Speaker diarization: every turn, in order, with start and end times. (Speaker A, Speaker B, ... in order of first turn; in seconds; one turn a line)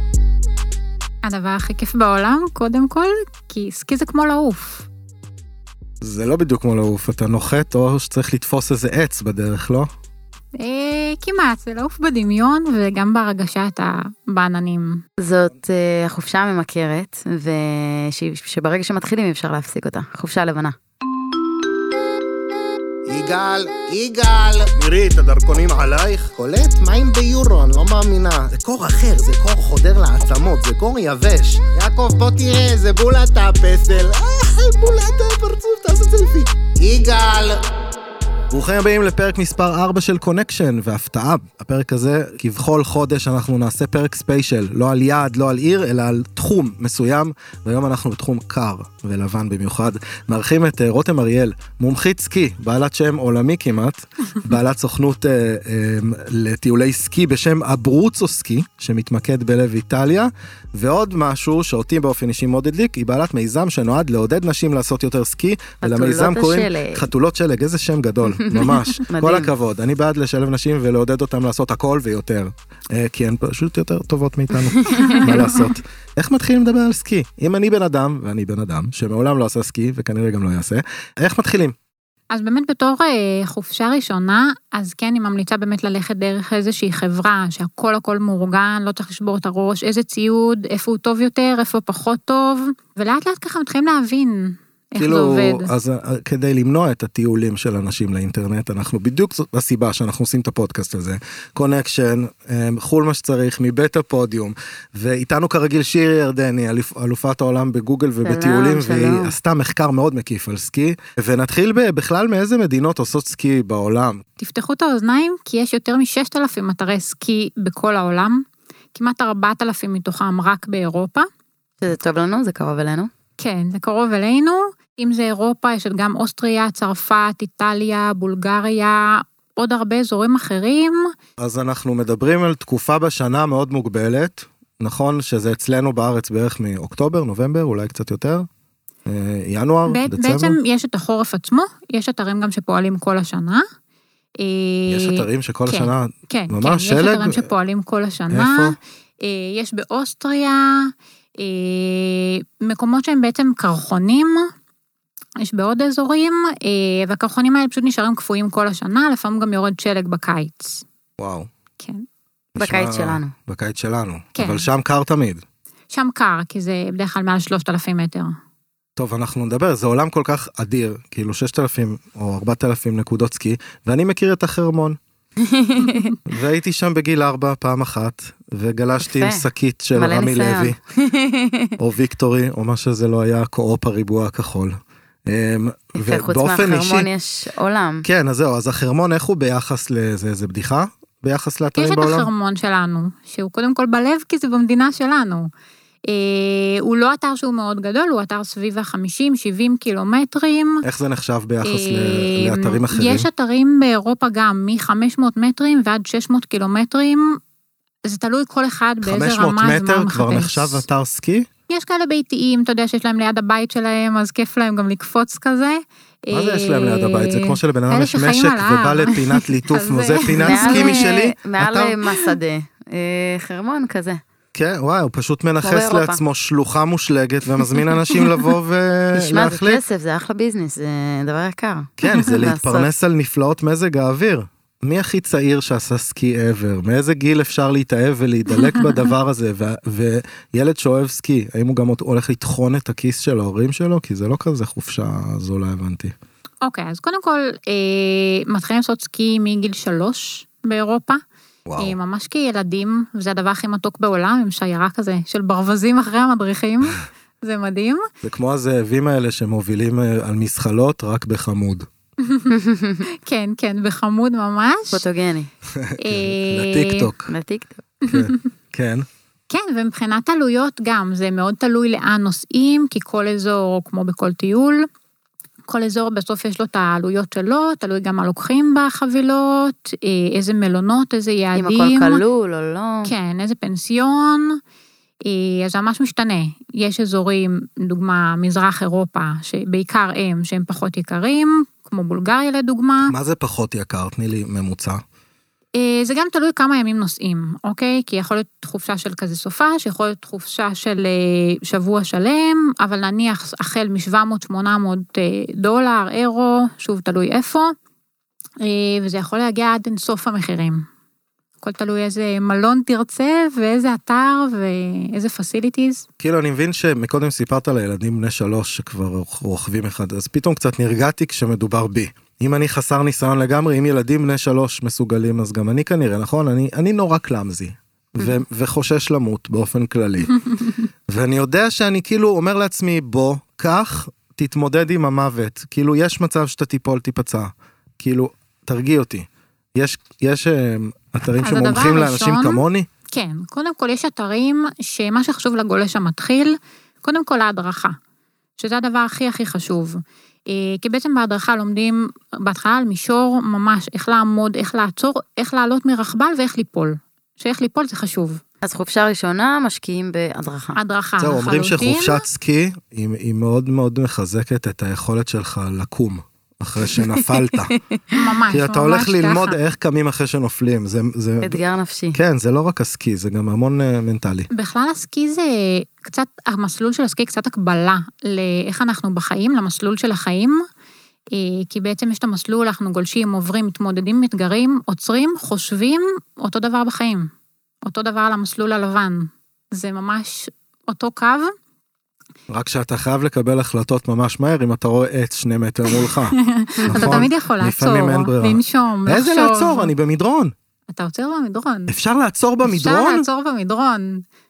Speaker A: 1.2-4.9
Speaker B: 6.0-9.9
Speaker A: 10.6-15.0
Speaker C: 15.2-20.8
Speaker D: 23.1-37.6
Speaker B: 38.5-81.7
Speaker C: 65.8-67.0
Speaker C: 68.4-69.5
Speaker C: 74.6-75.5
Speaker A: 75.1-75.5
Speaker A: 82.3-95.7
Speaker B: 95.0-114.2
Speaker C: 108.2-109.3
Speaker A: 114.4-121.3
Speaker C: 121.8-123.1
Speaker A: 123.4-131.1
Speaker B: 131.4-138.5
Speaker B: 139.1-140.6
Speaker A: 139.9-143.6
Speaker A: 144.4-154.5
Speaker B: 144.9-147.5
Speaker B: 148.3-148.8
Speaker A: 155.4-160.8
Speaker B: 161.2-161.5
Speaker A: 161.8-162.0
Speaker B: 162.5-165.4
Speaker C: 162.6-163.3
Speaker A: 164.3-164.7
Speaker A: 165.9-168.3
Speaker B: 169.0-175.0
Speaker C: 175.4-176.1
Speaker B: 176.2-180.8
Speaker C: 179.0-181.8
Speaker B: 181.8-187.1
Speaker C: 185.9-188.0
Speaker B: 188.0-192.3
Speaker A: 191.8-195.5
Speaker A: 196.0-200.8
Speaker B: 200.8-203.3
Speaker A: 201.6-207.4
Speaker A: 208.0-210.8
Speaker B: 209.0-211.5
Speaker A: 211.7-221.1
Speaker B: 216.3-222.0
Speaker C: 220.4-224.2
Speaker B: 224.5-229.8
Speaker C: 225.6-226.2
Speaker C: 229.1-232.9
Speaker B: 232.0-246.1
Speaker A: 246.6-251.2
Speaker B: 251.7-252.0
Speaker A: 251.8-258.1
Speaker B: 258.2-261.9
Speaker A: 262.2-262.5
Speaker C: 262.5-263.0
Speaker A: 263.2-265.0
Speaker C: 264.9-265.5
Speaker B: 265.7-267.3
Speaker A: 266.0-267.1
Speaker C: 267.3-267.8
Speaker A: 268.0-268.4
Speaker B: 268.0-269.1
Speaker A: 269.5-274.9
Speaker A: 275.7-282.2
Speaker C: 281.5-283.1
Speaker A: 283.0-284.6
Speaker A: 285.2-293.1
Speaker B: 293.0-295.0
Speaker A: 295.7-307.7
Speaker A: 308.6-310.9
Speaker A: 311.6-316.0
Speaker B: 316.2-330.4
Speaker B: 331.1-342.9
Speaker A: 341.4-348.0
Speaker A: 348.6-358.4
Speaker C: 358.6-360.8
Speaker A: 360.7-362.2
Speaker B: 361.2-367.7
Speaker C: 366.9-368.2
Speaker A: 368.1-369.6
Speaker B: 368.5-371.6
Speaker C: 371.4-372.2
Speaker B: 372.1-374.5
Speaker A: 374.5-380.6
Speaker A: 381.3-387.3
Speaker A: 387.8-391.5
Speaker B: 392.5-396.4
Speaker A: 395.9-399.9
Speaker C: 396.8-397.3
Speaker B: 396.9-400.5
Speaker A: 400.9-401.9
Speaker B: 401.9-403.2
Speaker A: 402.6-404.2